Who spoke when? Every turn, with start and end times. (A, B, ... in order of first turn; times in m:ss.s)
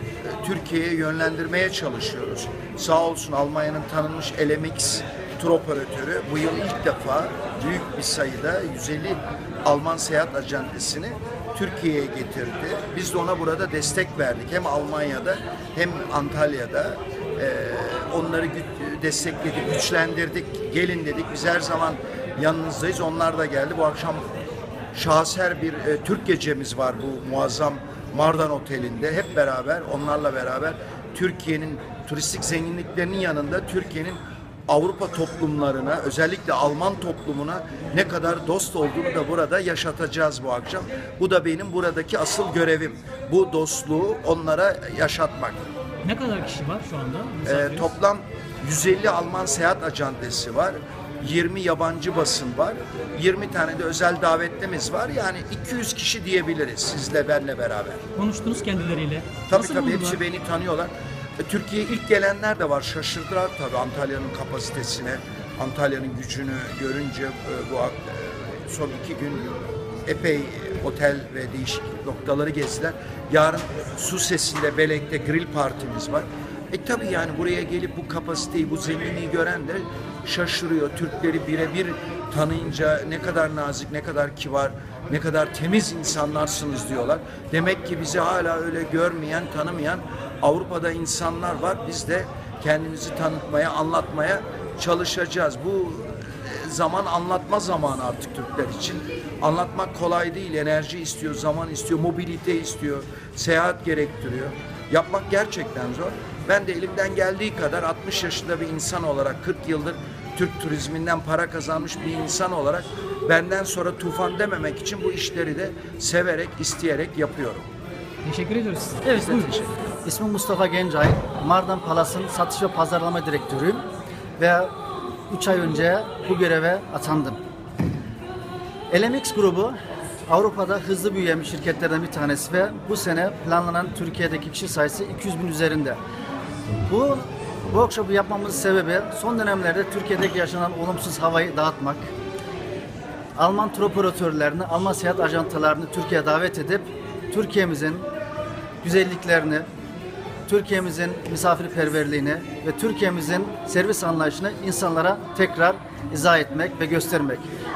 0:00.2-0:24.2 A
0:24.9-0:45.7 A
0:46.0-0:47.9 B
0:47.4-0:58.0 A
0:58.2-1:00.2 B
0:59.5-1:57.7 A
1:58.2-1:59.6 B
1:59.2-1:59.7 A
2:00.0-2:03.8 C
2:04.4-2:04.7 C
2:05.3-2:07.4 C
2:08.9-2:09.8 C
2:10.3-2:16.0 C
2:16.8-2:22.1 C
2:23.4-2:28.1 C
2:28.8-2:29.7 C
2:30.5-2:37.5 C